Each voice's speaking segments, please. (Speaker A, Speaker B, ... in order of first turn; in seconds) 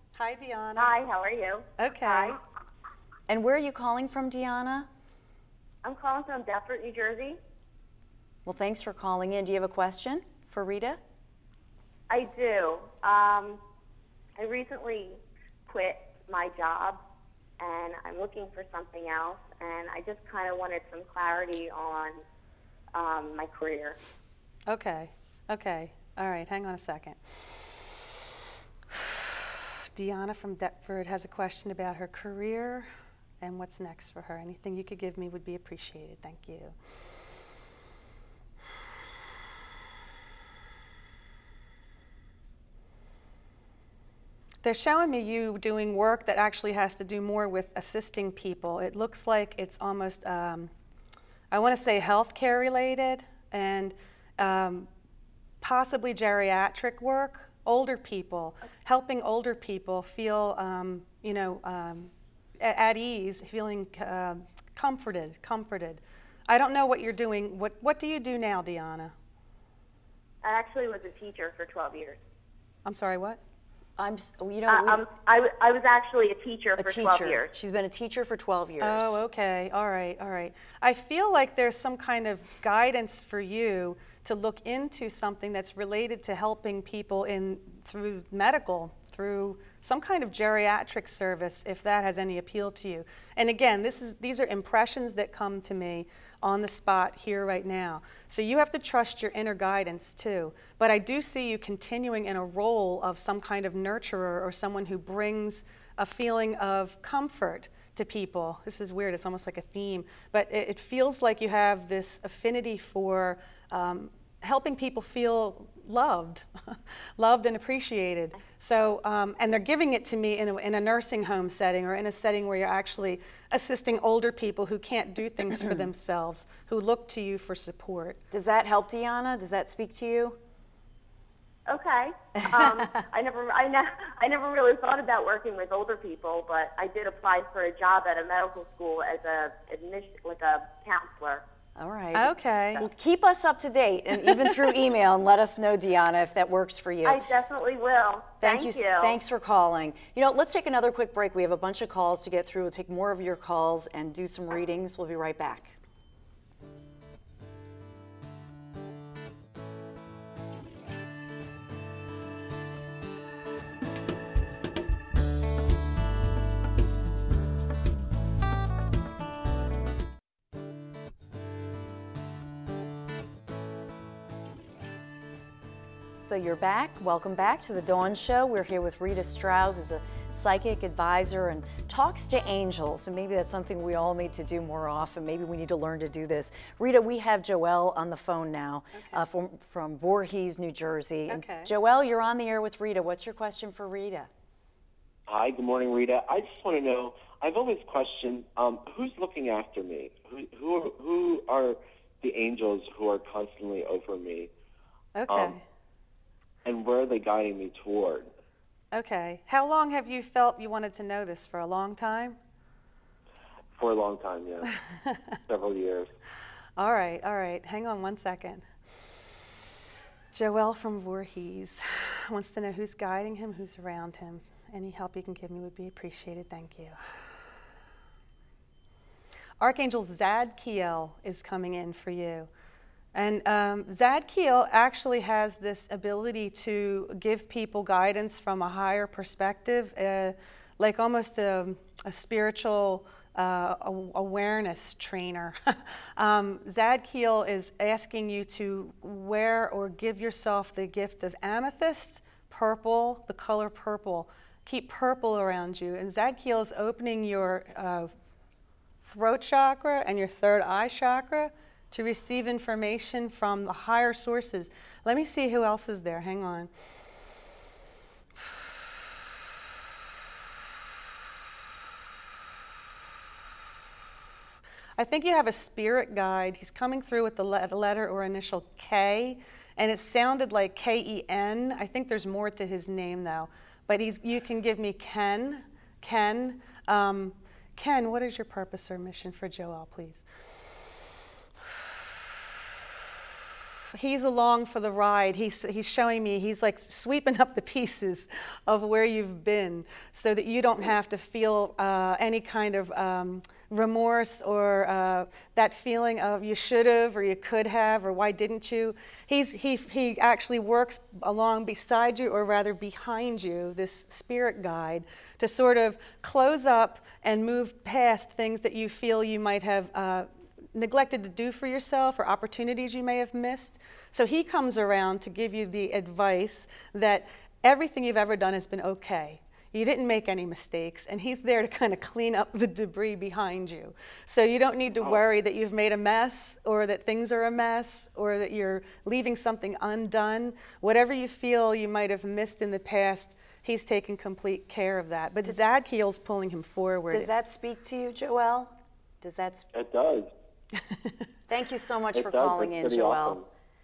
Speaker A: 0.1-0.9, 1.8-2.4, 24.7-27.2, 29.9-32.9, 33.4-36.8, 44.6-50.7, 51.5-54.9, 55.6-69.1, 72.8-73.4, 78.8-128.2, 142.2-142.8, 188.9-189.3, 191.3-191.7, 205.2-205.6, 208.9-212.4, 216.8-218.7, 220.3-227.0, 229.6-232.5, 233.1-258.1, 259.0-266.7, 275.0-290.2, 293.9-347.3
Speaker B: 0.8-2.4, 5.8-7.4, 12.1-13.6, 14.4-17.0, 17.6-22.2, 22.9-24.0, 70.4-72.2, 74.7-77.5, 131.7-141.4, 147.1-149.2
Speaker C: 3.3-4.9, 8.4-11.0, 74.0-75.0, 76.8-79.2, 128.3-130.4, 141.8-147.2, 148.4-155.8, 176.2-194.3, 347.1-349.7, 351.5-353.4
Speaker D: 195.3-204.5, 205.3-205.6, 206.7-208.3, 213.8-214.8, 215.5-216.1, 349.7-350.3, 352.1-353.4